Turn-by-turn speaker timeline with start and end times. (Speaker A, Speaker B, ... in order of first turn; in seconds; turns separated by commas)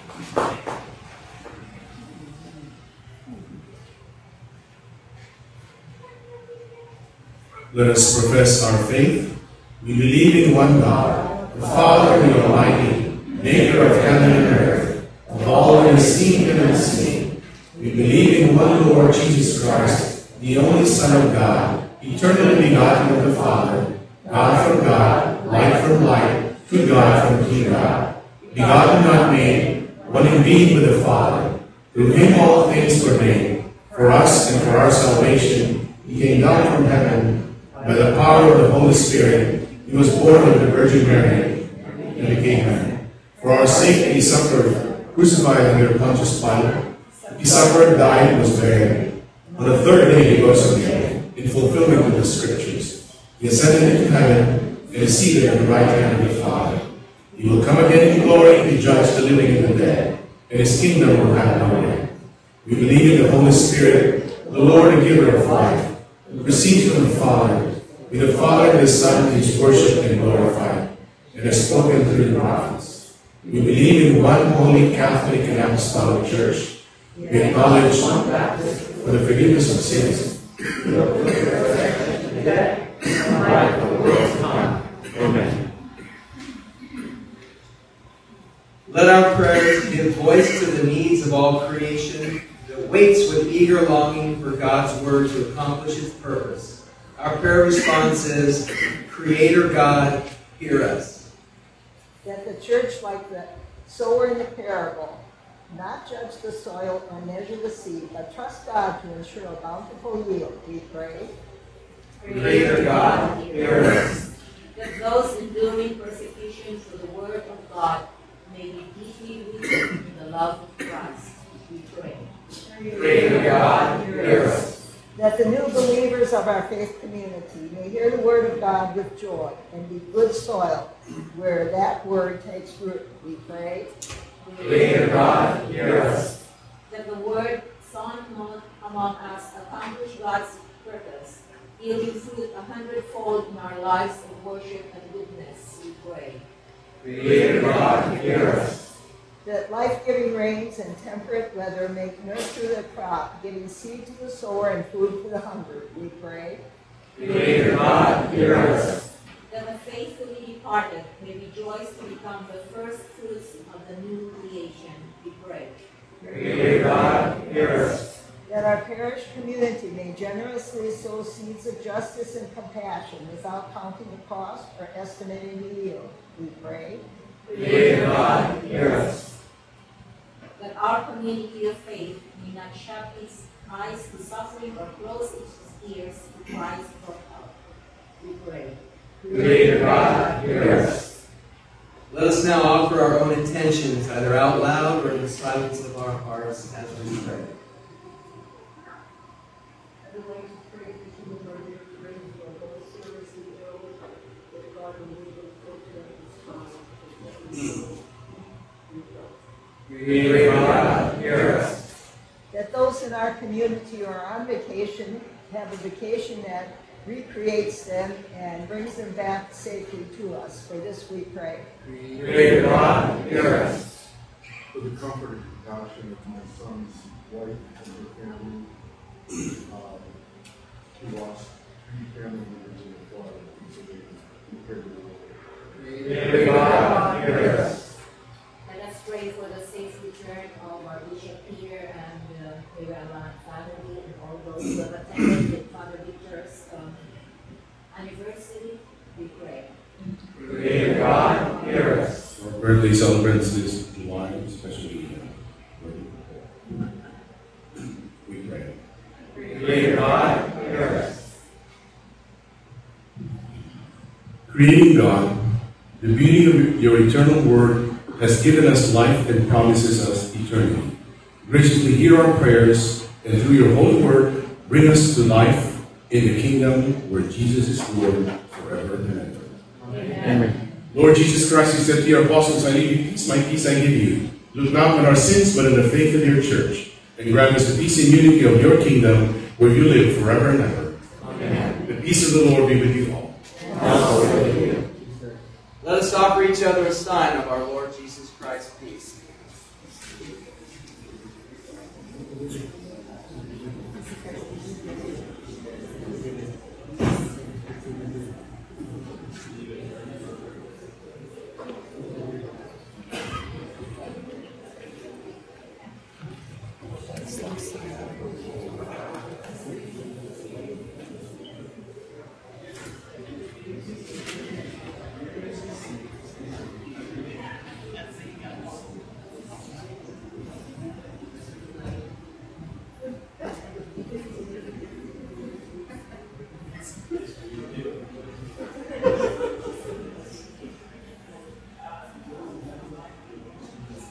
Speaker A: 7.7-62.1, Speaker A: 62.6-80.4, Speaker B: 84.0-84.3, Speaker B: 85.1-85.6, Speaker C: 88.9-101.3, Speaker D: 102.2-111.3, Speaker E: 112.2-113.8, Speaker E: 114.8-122.3, Speaker C: 122.9-124.7, Speaker D: 125.2-133.9, Speaker E: 136.9-146.4, Speaker D: 149.4-156.6, Speaker E: 159.5-165.7, Speaker D: 168.5-177.1, Speaker E: 177.6-178.1, Speaker E: 180.6-187.5, Speaker E: 188.2-189.3, Speaker C: 190.6-190.9, Speaker C: 192.1-197.5, Speaker F: 200.1-204.0, Speaker F: 204.5-207.9, Speaker F: 208.9-209.3, Speaker B: 209.9-211.6, Speaker D: 212.5-221.7, Speaker G: 221.8-222.7, Speaker B: 222.2-223.7, Speaker G: 224.7-228.7, Speaker G: 229.6-230.2, Speaker G: 231.0-236.3, Speaker B: 236.1-237.5, Speaker E: 238.7-246.9, Speaker E: 247.9-249.7, Speaker A: 252.3-256.5, Speaker A: 258.2-258.8, Speaker A: 264.5-265.4, Speaker A: 266.0-279.6, Speaker B: 279.9-280.6, Speaker A: 280.9-291.0, Speaker B: 291.3-291.7, Speaker A: 291.8-293.4, Speaker C: 295.8-299.2